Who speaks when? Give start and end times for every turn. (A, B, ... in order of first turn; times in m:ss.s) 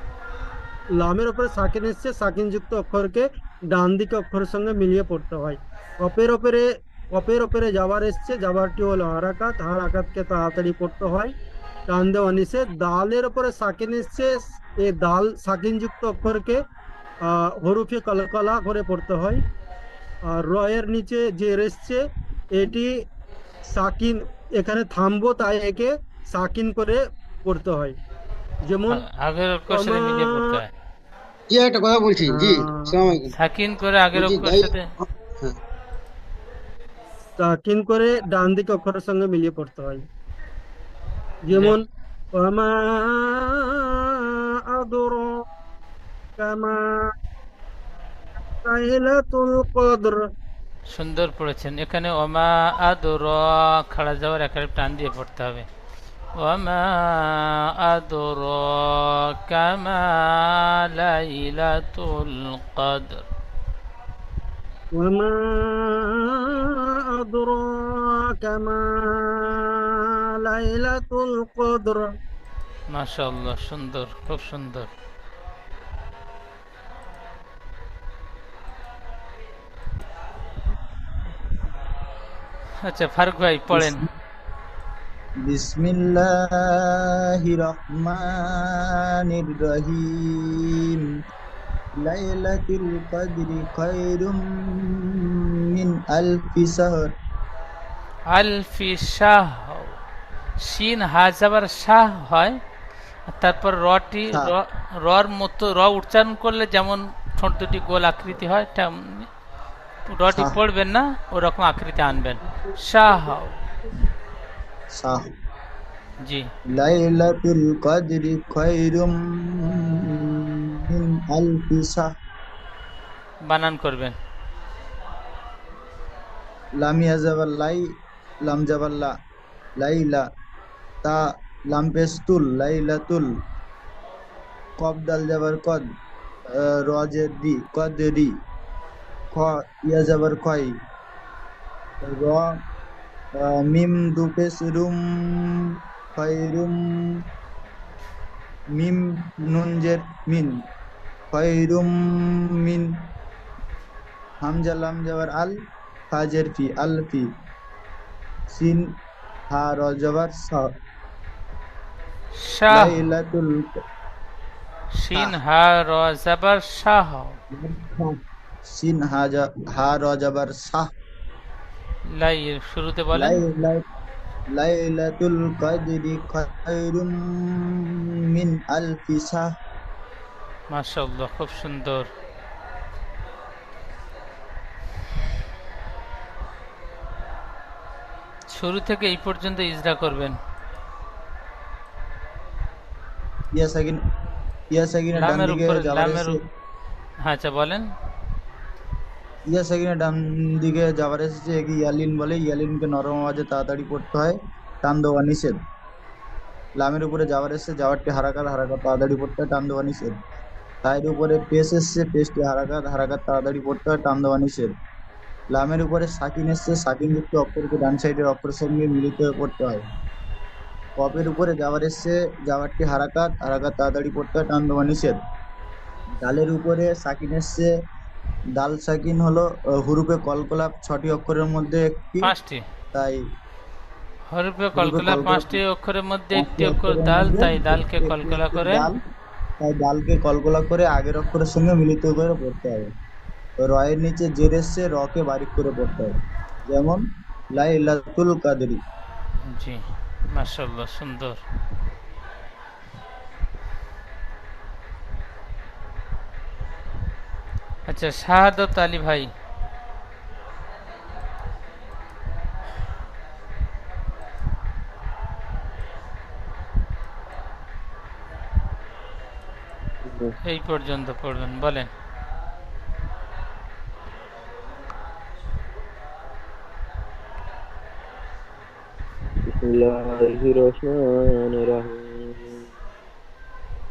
0:00.9-0:11.3 A
0:11.9-0:16.6 A
0:17.2-0:19.4 A
0:20.3-0:22.9 A
0:23.7-0:28.0 A
0:28.7-0:29.0 A
0:28.9-0:30.7 B
0:29.7-0:30.5 A
0:31.5-0:33.3 C
0:32.3-0:33.0 A
0:33.4-0:34.9 B
0:34.2-0:35.6 C
0:37.4-0:40.0 A
0:41.4-0:43.9 A
0:41.5-0:41.8 B
0:44.7-0:45.4 A
0:46.4-0:47.1 A
0:48.6-0:50.2 A
0:50.9-0:55.7 B
0:56.4-1:03.2 B
1:05.0-1:06.6 A
1:07.1-1:12.1 A
1:12.9-1:14.9 B
1:22.8-1:24.0 B
1:23.7-1:24.0 D
1:25.4-1:31.0 D
1:32.0-1:37.1 D
1:38.3-1:40.0 B
1:40.6-1:42.6 B
1:43.4-1:49.3 B
1:50.1-1:53.6 B
1:50.3-1:50.6 D
1:54.9-1:55.3 D
1:56.7-2:02.1 D
2:03.5-2:04.2 B
2:06.8-2:07.9 D
2:08.4-2:09.1 D
2:09.8-2:10.3 D
2:11.0-2:13.3 D
2:14.8-2:15.9 D
2:16.5-2:18.4 D
2:19.3-2:20.8 D
2:22.0-2:22.6 D
2:23.4-2:27.2 D
2:28.7-2:30.6 D
2:31.3-2:33.0 D
2:34.4-2:35.6 D
2:36.1-2:37.3 D
2:38.5-2:38.9 D
2:39.5-2:40.7 D
2:42.4-2:42.9 B
2:42.7-2:43.8 D
2:45.0-2:47.4 B
2:47.5-2:50.9 D
2:52.1-2:53.4 B
2:53.1-2:53.8 D
2:54.5-2:59.5 D
3:00.7-3:02.1 B
3:08.5-3:10.4 B
3:13.5-3:14.0 D
3:14.7-3:16.3 D
3:15.2-3:16.4 B
3:17.2-3:17.9 B
3:19.5-3:25.6 D
3:26.8-3:30.2 D
3:30.8-3:34.7 D
3:35.5-3:39.8 D
3:41.0-3:45.2 D
3:46.2-3:47.7 D
3:48.6-3:52.3 D
3:52.2-3:52.6 B
3:52.9-3:53.2 D
3:54.3-3:58.9 B
3:54.8-3:55.6 D
3:56.3-3:59.0 D
3:59.6-4:02.9 D
4:03.6-4:06.2 D
4:06.7-4:08.8 D
4:09.5-4:09.8 B
4:10.3-4:11.4 B
4:17.9-4:19.3 B
4:30.1-4:30.3 E
4:30.4-4:31.9 B
4:39.5-4:42.6 E